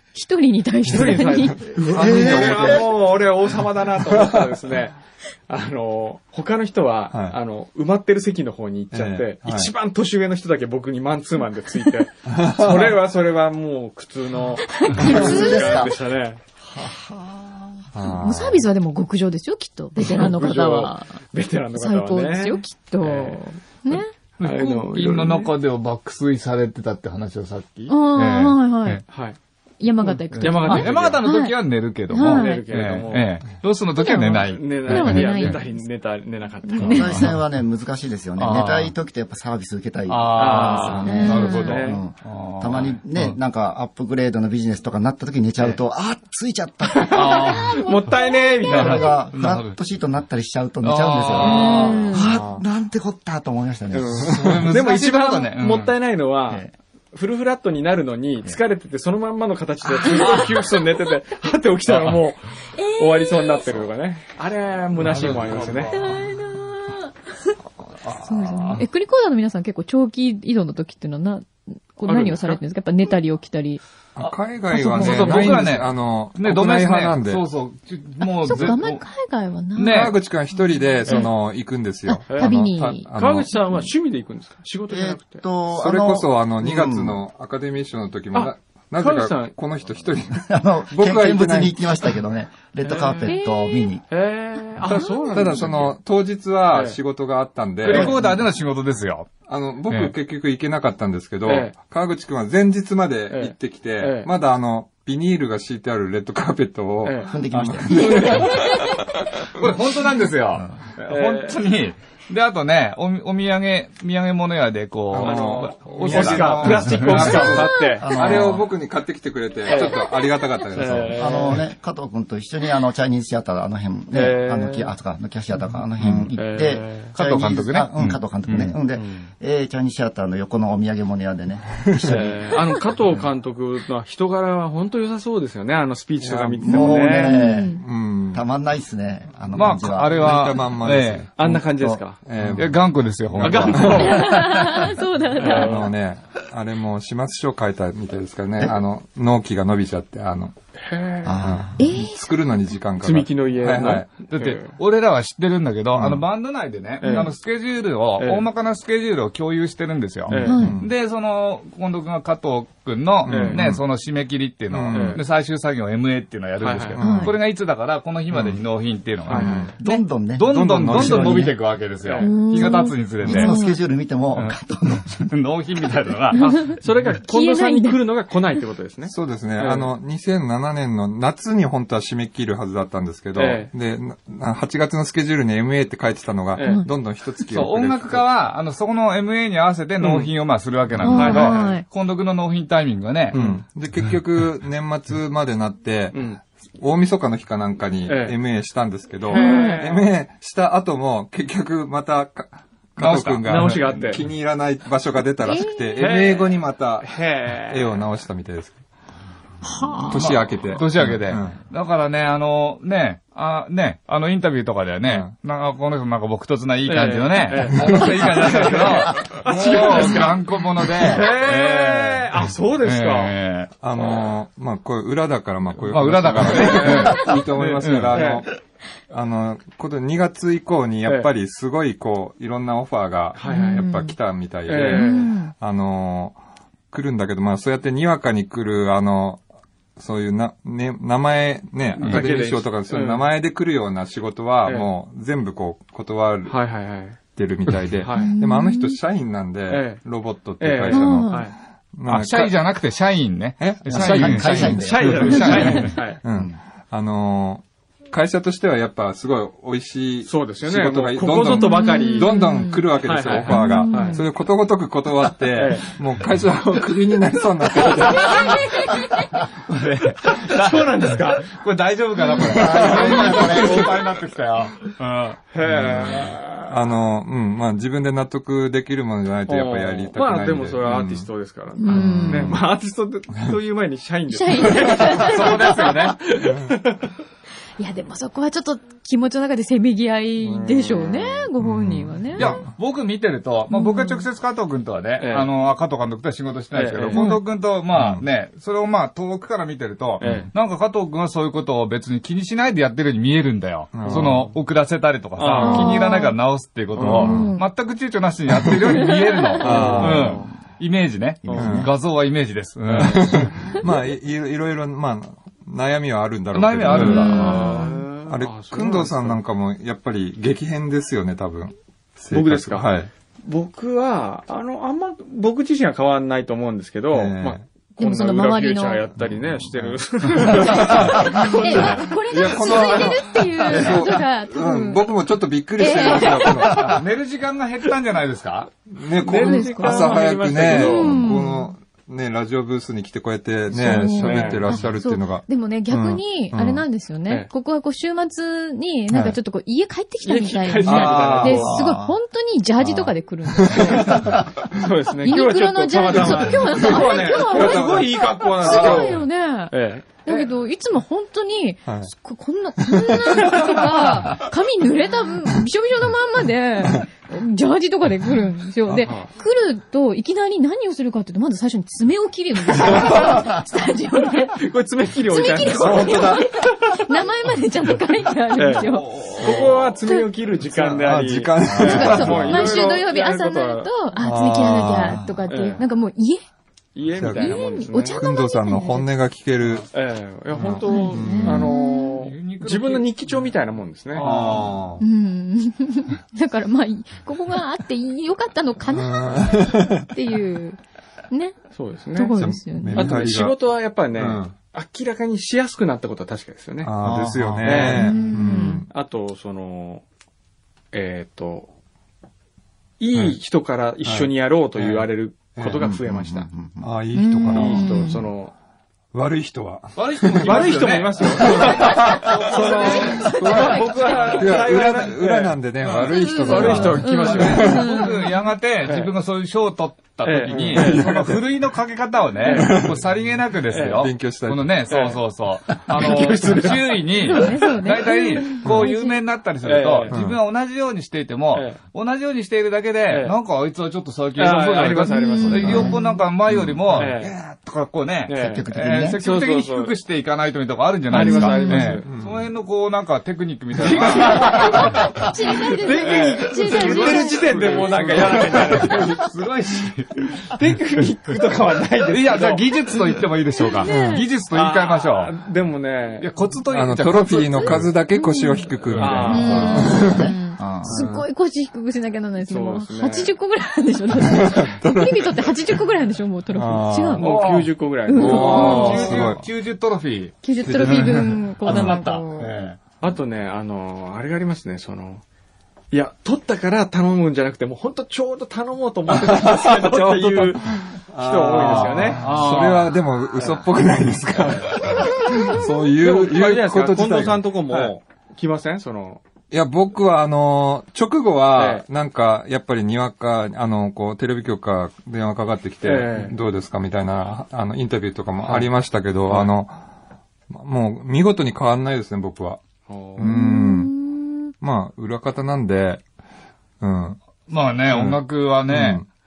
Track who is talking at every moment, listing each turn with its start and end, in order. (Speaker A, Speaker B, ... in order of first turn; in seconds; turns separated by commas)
Speaker A: 0.1-1.6, Speaker B: 0.8-3.0, Speaker C: 0.9-5.0, Speaker D: 1.8-2.8, Speaker C: 5.5-16.4, Speaker B: 8.9-9.7, Speaker B: 12.3-12.9, Speaker A: 14.7-15.8, Speaker D: 15.0-16.0, Speaker D: 16.7-17.6, Speaker B: 17.9-18.7, Speaker A: 18.1-21.2, Speaker C: 20.0-23.4, Speaker A: 21.8-24.1, Speaker E: 24.4-29.0, Speaker C: 24.4-25.5, Speaker A: 27.9-29.0, Speaker C: 29.1-29.4, Speaker A: 29.8-31.6, Speaker E: 30.3-35.6, Speaker C: 30.4-31.2, Speaker A: 32.1-32.6, Speaker C: 32.2-33.5, Speaker A: 34.0-35.8, Speaker C: 34.3-37.2, Speaker A: 36.6-37.3, Speaker D: 36.8-47.2, Speaker E: 36.9-37.3, Speaker E: 38.4-38.9, Speaker E: 40.1-43.4, Speaker C: 40.3-42.0, Speaker A: 41.0-41.7, Speaker C: 46.9-49.1, Speaker E: 47.1-47.9, Speaker A: 47.2-49.0, Speaker E: 48.6-49.8, Speaker D: 48.7-54.7, Speaker E: 50.8-52.3, Speaker A: 51.4-52.3, Speaker C: 51.4-51.9, Speaker B: 52.3-52.6, Speaker C: 53.9-65.9, Speaker E: 54.2-55.9, Speaker E: 61.9-62.2, Speaker A: 62.7-63.7, Speaker E: 65.0-66.2, Speaker A: 65.9-67.5, Speaker E: 68.0-68.8, Speaker A: 68.2-73.8, Speaker C: 72.1-72.6, Speaker B: 74.2-77.5, Speaker E: 74.2-79.0, Speaker A: 74.7-75.3, Speaker C: 75.0-75.7, Speaker A: 78.2-80.1, Speaker E: 79.7-80.2, Speaker B: 79.8-83.7, Speaker A: 82.0-83.1, Speaker C: 82.3-82.5, Speaker C: 83.1-85.4, Speaker D: 84.9-87.2, Speaker B: 85.7-91.8, Speaker C: 88.3-89.5, Speaker D: 90.3-94.0, Speaker C: 92.8-93.3, Speaker A: 93.2-93.9, Speaker C: 94.1-96.0, Speaker A: 94.8-95.6, Speaker B: 95.3-98.2, Speaker C: 96.7-97.0, Speaker E: 97.8-99.3, Speaker D: 98.0-98.4, Speaker B: 99.5-108.5, Speaker C: 101.5-101.7, Speaker C: 103.3-104.3, Speaker C: 107.0-109.0, Speaker D: 107.2-108.3, Speaker E: 109.5-117.6, Speaker C: 111.1-111.6, Speaker B: 115.1-121.3, Speaker C: 115.1-118.4, Speaker D: 118.0-118.6, Speaker C: 119.7-120.0, Speaker A: 119.7-120.1, Speaker C: 120.7-121.7, Speaker D: 121.1-132.6, Speaker C: 124.1-124.9, Speaker C: 126.3-127.1, Speaker E: 127.1-128.8, Speaker C: 129.0-129.3, Speaker B: 131.9-132.2, Speaker C: 132.1-137.4, Speaker B: 136.2-137.2, Speaker D: 136.6-137.8, Speaker A: 137.1-137.8, Speaker B: 137.7-138.4, Speaker D: 138.3-140.4, Speaker E: 139.5-141.3, Speaker B: 140.0-141.3, Speaker C: 141.4-142.2, Speaker D: 141.4-142.0, Speaker B: 142.2-144.4, Speaker E: 142.5-144.1, Speaker C: 143.4-144.8, Speaker A: 143.9-145.8, Speaker C: 145.4-145.9, Speaker B: 145.4-150.5, Speaker C: 150.8-151.4, Speaker D: 151.2-151.7, Speaker B: 151.4-154.2, Speaker A: 151.8-152.3, Speaker C: 153.0-154.8, Speaker E: 154.2-173.5, Speaker B: 155.9-156.2, Speaker C: 157.0-157.3, Speaker C: 158.2-158.4, Speaker C: 160.3-160.7, Speaker B: 160.3-160.9, Speaker A: 160.4-160.7, Speaker B: 163.2-163.8, Speaker C: 163.3-163.6, Speaker B: 164.7-165.2, Speaker C: 164.9-165.2, Speaker C: 166.6-167.0, Speaker B: 166.9-167.4, Speaker A: 167.0-167.3, Speaker B: 168.3-168.6, Speaker C: 169.3-169.8, Speaker B: 169.3-169.7, Speaker D: 169.8-171.6, Speaker B: 170.4-171.6, Speaker C: 170.9-171.4, Speaker C: 172.0-172.4, Speaker A: 172.2-173.8, Speaker D: 173.2-175.3, Speaker E: 175.1-176.8, Speaker A: 176.3-178.0, Speaker C: 176.4-179.9, Speaker B: 179.1-188.3, Speaker C: 183.3-183.7, Speaker C: 186.6-186.8, Speaker E: 187.5-193.3, Speaker C: 190.0-190.3, Speaker A: 191.0-191.8, Speaker C: 191.0-191.8, Speaker B: 193.3-208.8, Speaker C: 193.3-193.6, Speaker C: 196.1-196.4, Speaker C: 198.1-198.3, Speaker C: 199.3-200.1, Speaker A: 199.3-199.8, Speaker C: 203.0-204.2, Speaker E: 203.0-203.8, Speaker A: 205.4-206.0, Speaker C: 206.0-208.0, Speaker A: 209.7-210.1, Speaker E: 210.1-223.7, Speaker B: 210.1-211.6, Speaker B: 215.1-215.3, Speaker C: 216.8-223.4, Speaker B: 217.8-218.3, Speaker B: 223.8-228.5, Speaker E: 225.8-228.3, Speaker C: 226.4-228.4, Speaker B: 229.1-236.4, Speaker C: 233.3-233.8, Speaker A: 233.4-234.1, Speaker C: 234.7-235.3, Speaker A: 234.9-235.5, Speaker B: 236.9-239.4, Speaker B: 240.0-246.6, Speaker C: 242.0-243.3, Speaker C: 246.4-247.2, Speaker B: 247.3-252.6, Speaker C: 248.0-248.3, Speaker A: 248.1-249.0, Speaker C: 249.7-250.1, Speaker C: 250.6-251.6, Speaker A: 250.9-251.4, Speaker E: 252.1-256.0, Speaker B: 253.6-268.7, Speaker D: 253.8-255.6, Speaker C: 254.5-256.2, Speaker C: 260.2-262.4, Speaker A: 261.5-262.9, Speaker C: 263.0-264.2, Speaker A: 263.5-264.2, Speaker C: 265.5-266.0, Speaker A: 268.2-269.3, Speaker E: 269.7-275.4, Speaker C: 270.2-271.6, Speaker B: 272.5-273.9, Speaker C: 272.6-273.9, Speaker C: 275.5-276.9, Speaker B: 275.6-281.3, Speaker E: 276.0-276.2, Speaker C: 279.5-287.1, Speaker A: 281.8-282.5, Speaker B: 281.9-282.6, Speaker A: 284.3-285.9, Speaker E: 285.2-286.2, Speaker A: 287.8-292.6, Speaker B: 290.6-291.0, Speaker B: 291.6-292.7, Speaker E: 292.3-313.7, Speaker A: 293.7-294.2, Speaker C: 295.2-295.5, Speaker C: 296.7-297.2, Speaker A: 297.1-297.4, Speaker B: 297.9-298.2, Speaker B: 300.2-300.5, Speaker C: 300.2-300.5, Speaker B: 303.9-304.6, Speaker C: 304.0-304.4, Speaker C: 305.4-306.2, Speaker A: 305.6-306.3, Speaker B: 306.9-307.6, Speaker C: 307.0-307.4, Speaker A: 307.1-307.6, Speaker B: 308.5-308.9, Speaker A: 309.0-309.6, Speaker C: 309.6-310.5, Speaker B: 309.6-310.4, Speaker D: 311.4-311.8, Speaker C: 311.4-311.8, Speaker B: 311.5-311.9, Speaker C: 312.9-313.8, Speaker B: 313.0-323.1, Speaker E: 316.5-317.9, Speaker C: 316.9-319.4, Speaker A: 317.0-317.8, Speaker C: 322.3-322.9, Speaker C: 323.4-333.1, Speaker B: 327.1-327.6, Speaker A: 328.0-329.1, Speaker B: 329.2-337.0, Speaker A: 330.6-335.1, Speaker A: 335.8-336.8, Speaker E: 336.7-338.7, Speaker B: 338.9-346.9, Speaker C: 339.2-341.2, Speaker A: 339.3-341.7, Speaker A: 343.7-354.2, Speaker C: 343.8-344.7, Speaker B: 349.1-349.4, Speaker C: 350.2-351.8, Speaker B: 350.9-351.9, Speaker E: 351.0-351.7, Speaker B: 352.8-354.9, Speaker C: 353.8-360.2, Speaker A: 355.2-374.6, Speaker B: 356.7-359.1, Speaker B: 361.9-362.1, Speaker B: 362.8-363.6, Speaker C: 369.0-369.3, Speaker C: 374.6-377.0, Speaker A: 375.3-380.3, Speaker B: 375.7-376.4, Speaker C: 378.6-383.9, Speaker E: 378.9-379.8, Speaker B: 380.6-382.7, Speaker A: 381.8-386.4, Speaker E: 381.9-382.5, Speaker B: 384.2-385.2, Speaker C: 385.5-385.8, Speaker C: 386.9-388.2, Speaker B: 387.1-389.9, Speaker A: 387.3-389.1, Speaker C: 389.9-394.7, Speaker B: 390.5-391.7, Speaker A: 390.9-392.1, Speaker E: 392.2-393.5, Speaker E: 394.2-394.7, Speaker B: 394.2-395.0, Speaker A: 395.0-400.8, Speaker B: 398.9-400.1, Speaker A: 401.3-401.6, Speaker C: 401.7-402.3, Speaker A: 402.1-403.1, Speaker B: 402.3-403.6, Speaker C: 402.9-408.3, Speaker B: 404.1-404.5, Speaker B: 406.8-408.9, Speaker D: 407.0-407.8, Speaker A: 407.8-408.8, Speaker C: 408.9-410.0, Speaker C: 410.9-411.7, Speaker C: 413.0-416.5, Speaker B: 414.0-416.0, Speaker D: 415.8-416.9, Speaker B: 416.8-418.1, Speaker A: 417.1-418.2, Speaker C: 417.5-418.5, Speaker B: 419.1-420.8, Speaker E: 419.9-424.4, Speaker C: 420.4-425.6, Speaker B: 421.4-427.9, Speaker A: 422.5-424.4, Speaker E: 425.9-455.2, Speaker A: 426.2-428.3, Speaker C: 426.3-428.0, Speaker C: 428.9-429.1, Speaker C: 430.2-431.4, Speaker B: 430.5-431.3, Speaker C: 432.4-432.9, Speaker B: 432.5-433.3, Speaker C: 433.7-434.1, Speaker B: 434.0-434.9, Speaker C: 434.9-437.5, Speaker A: 437.2-439.2, Speaker B: 438.6-438.9, Speaker C: 439.6-440.1, Speaker B: 440.1-440.4, Speaker C: 441.5-441.8, Speaker C: 443.1-443.3, Speaker C: 444.4-445.9, Speaker A: 445.1-446.2, Speaker B: 445.7-447.2, Speaker C: 446.9-447.3, Speaker C: 448.3-449.9, Speaker D: 448.4-449.2, Speaker C: 451.1-452.1, Speaker A: 451.1-452.0, Speaker B: 452.0-452.5, Speaker C: 453.8-455.0, Speaker B: 453.9-454.2, Speaker A: 454.1-457.4, Speaker C: 455.6-459.2, Speaker E: 456.0-460.5, Speaker B: 457.8-459.2, Speaker C: 460.5-463.0, Speaker E: 462.1-465.3, Speaker A: 463.8-464.2, Speaker B: 463.9-464.1, Speaker C: 464.5-466.3, Speaker E: 466.2-467.9, Speaker B: 466.7-471.2, Speaker A: 468.1-468.7, Speaker E: 468.9-469.5, Speaker C: 469.0-470.0, Speaker A: 469.3-477.2, Speaker D: 470.5-470.9, Speaker C: 472.4-473.3, Speaker B: 474.2-475.6, Speaker B: 476.5-477.3, Speaker C: 477.2-479.3, Speaker E: 477.2-482.8, Speaker A: 478.1-479.1, Speaker B: 478.2-479.4, Speaker A: 480.4-482.5, Speaker B: 480.6-482.0, Speaker C: 483.0-485.2, Speaker C: 485.9-492.8, Speaker B: 489.1-497.9, Speaker E: 491.5-492.9, Speaker C: 493.4-493.6, Speaker C: 494.3-499.2, Speaker B: 499.5-509.8, Speaker C: 501.5-501.9, Speaker C: 505.8-506.4, Speaker C: 508.4-508.7, Speaker B: 510.5-512.6, Speaker C: 512.9-513.3, Speaker B: 513.2-514.0, Speaker A: 513.2-514.5, Speaker B: 514.6-516.0, Speaker B: 516.8-517.2, Speaker E: 517.5-519.0, Speaker B: 517.9-519.0